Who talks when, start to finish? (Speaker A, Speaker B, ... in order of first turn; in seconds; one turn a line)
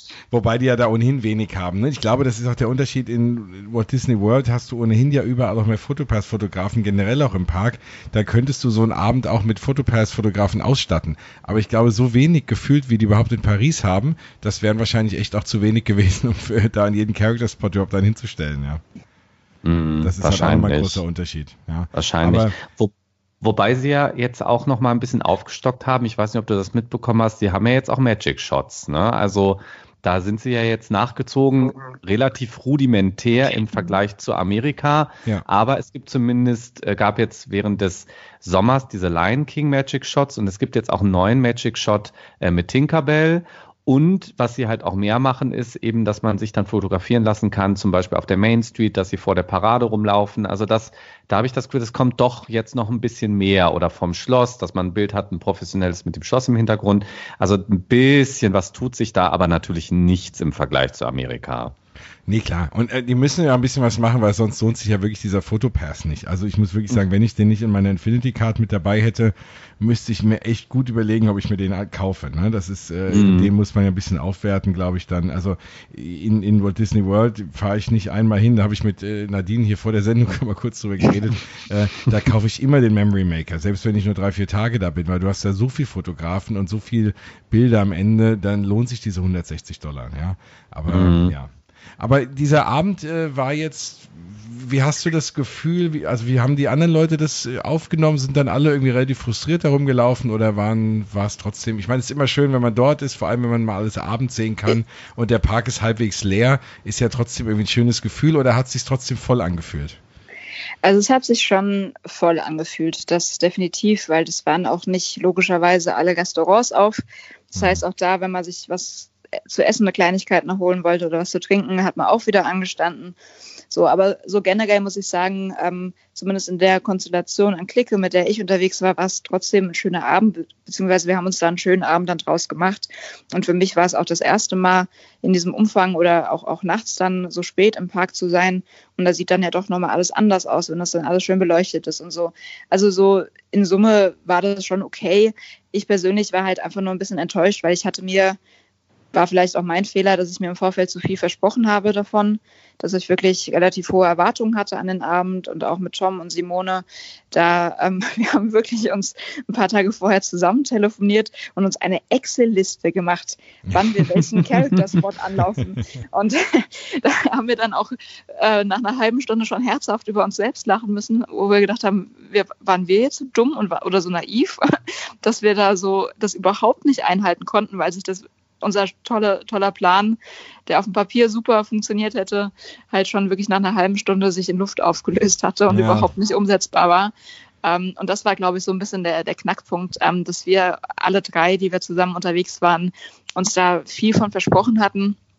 Speaker A: 0.3-18.8
Speaker B: 19.6-21.0
Speaker A: 20.0-22.5
Speaker B: 21.9-61.7
Speaker A: 62.3-110.0
Speaker B: 73.1-73.5
Speaker B: 90.9-91.3
Speaker C: 110.8-117.0
Speaker C: 117.5-123.2
Speaker A: 117.5-117.8
Speaker C: 123.7-148.4
Speaker C: 149.1-195.2
Speaker A: 163.7-164.3
Speaker A: 185.7-186.1